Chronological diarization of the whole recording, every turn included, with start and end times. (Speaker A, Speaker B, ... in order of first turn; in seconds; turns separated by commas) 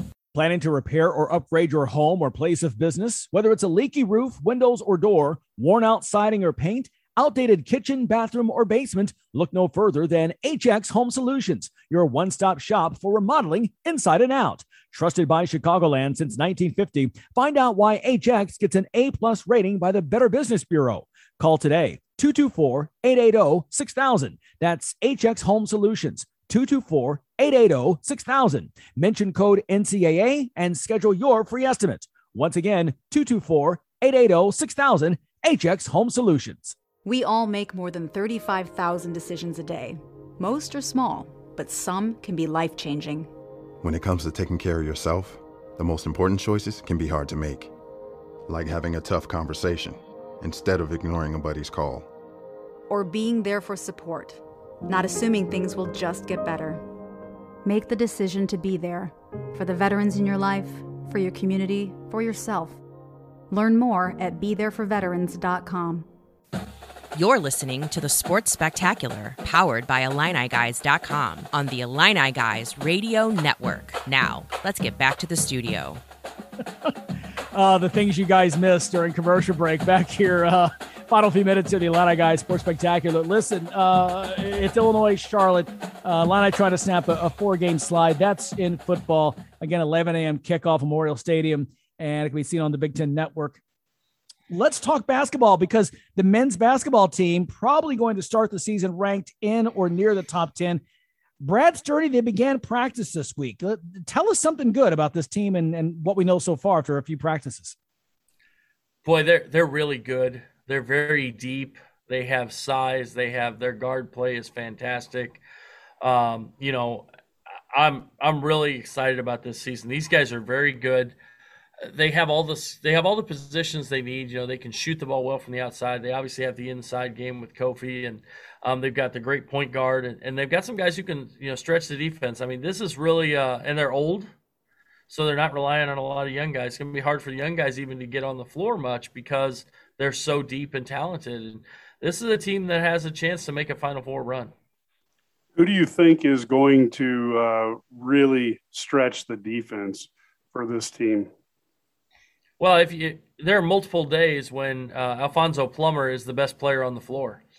Speaker A: 0.3-36.7, Speaker B: 37.0-43.3, Speaker C: 43.8-47.7, Speaker C: 48.5-52.1, Speaker B: 52.9-56.8, Speaker B: 57.6-62.8, Speaker B: 63.5-66.0, Speaker D: 67.1-76.0, Speaker A: 77.5-93.6, Speaker A: 94.5-100.8, Speaker A: 101.4-107.7, Speaker E: 109.0-115.4, Speaker E: 116.0-117.1, Speaker E: 117.7-121.1, Speaker E: 121.8-134.3, Speaker E: 135.1-144.5, Speaker F: 145.6-151.3, Speaker E: 152.6-157.4